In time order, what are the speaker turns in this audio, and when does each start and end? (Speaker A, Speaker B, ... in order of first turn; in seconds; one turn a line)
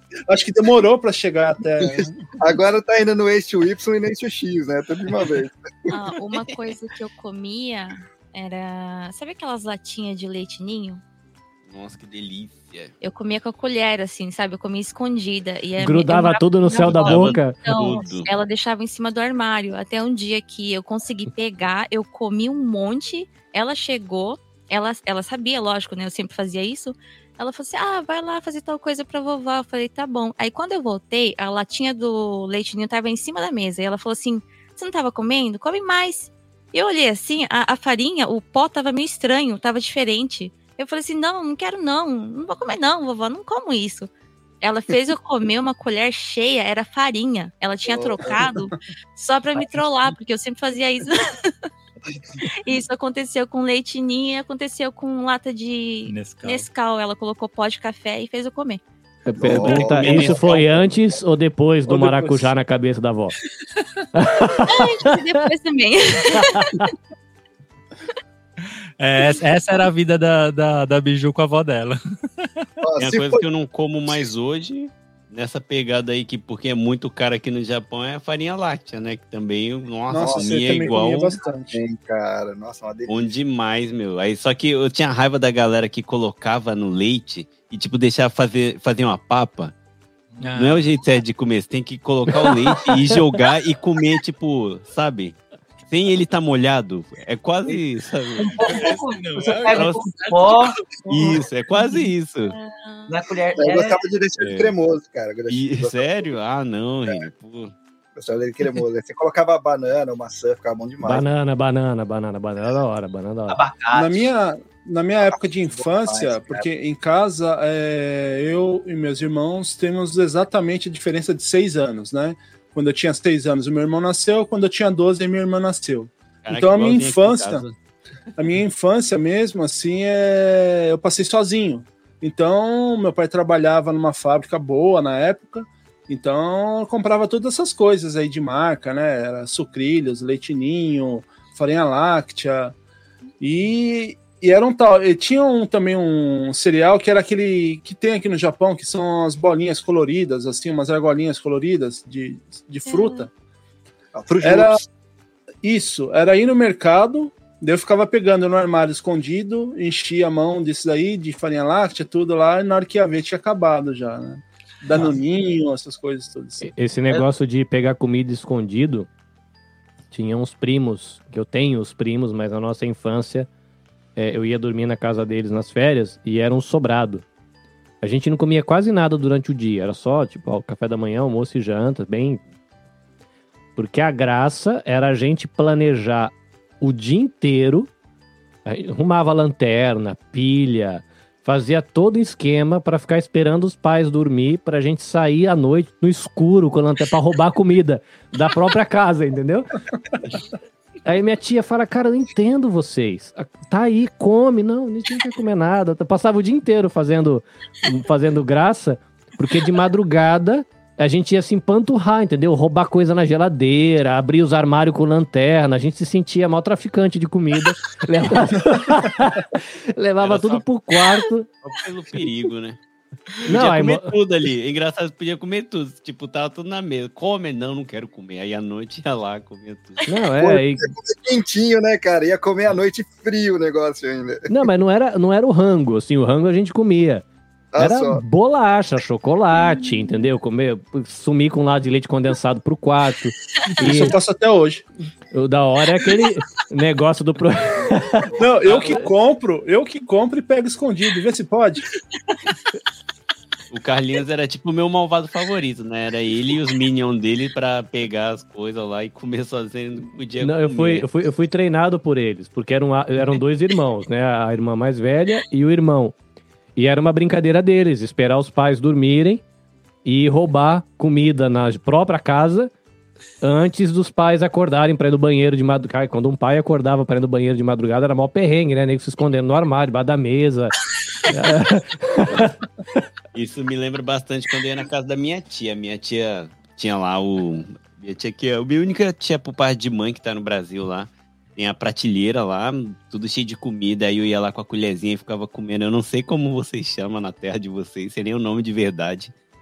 Speaker A: 0.3-2.2
Speaker B: 1.8-5.7
Speaker C: 5.9-11.0
Speaker D: 11.7-12.9
Speaker C: 13.0-44.1
Speaker E: 15.8-17.6
Speaker D: 16.8-18.3
Speaker C: 44.6-51.5
Speaker B: 47.9-48.4
Speaker C: 52.5-58.8
Speaker F: 56.0-56.7
Speaker E: 59.2-63.4
Speaker B: 59.4-61.0
Speaker D: 59.4-60.8
Speaker A: 61.9-62.5
Speaker E: 64.1-65.1
Speaker C: 64.5-66.8
Speaker F: 69.0-72.5
Speaker B: 72.8-73.4
Speaker D: 73.0-81.3
Speaker A: 80.1-81.8
Speaker B: 80.2-80.7
Speaker B: 81.7-83.2
Speaker D: 83.1-89.7
Speaker F: 90.4-90.8
Speaker D: 90.5-95.3
Speaker D: 95.9-98.9
Speaker G: 98.4-101.4
Speaker F: 98.6-100.7
Speaker D: 99.7-100.1
Speaker D: 101.1-102.5
Speaker C: 102.5-103.2
Speaker G: 103.1-104.0
Speaker B: 103.5-106.3
Speaker D: 104.4-104.7
Speaker D: 105.5-107.7
Speaker B: 108.1-111.2
Speaker E: 111.0-113.6
Speaker G: 113.5-114.3
Speaker A: 113.9-127.6
Speaker G: 115.8-116.6
Speaker D: 126.4-127.7
Speaker A: 128.4-142.7
Speaker A: 143.4-153.3
Speaker C: 152.8-153.3
Speaker B: 154.1-154.8
Speaker A: 154.4-154.8
Speaker A: 155.6-166.7
Speaker E: 166.6-169.1
Speaker E: 170.1-173.5
Speaker E: 174.2-177.2
Speaker E: 178.0-182.4
Speaker E: 183.8-187.9
Speaker E: 188.7-199.7
Speaker E: 201.1-221.5
Speaker D: 220.2-220.6
Speaker D: 221.6-222.8
Speaker D: 223.4-230.0
Speaker E: 223.5-224.1
Speaker E: 230.1-230.9
Speaker B: 230.4-234.5
Speaker E: 234.5-237.2
Speaker B: 237.7-238.2
Speaker E: 237.8-244.1
Speaker A: 243.8-244.8
Speaker E: 245.3-248.3
Speaker A: 248.4-251.8
Speaker D: 253.7-261.1
Speaker E: 260.4-266.1
Speaker E: 266.8-269.4
Speaker E: 270.0-272.7
Speaker E: 273.4-280.7
Speaker E: 281.3-282.5
Speaker D: 283.3-299.3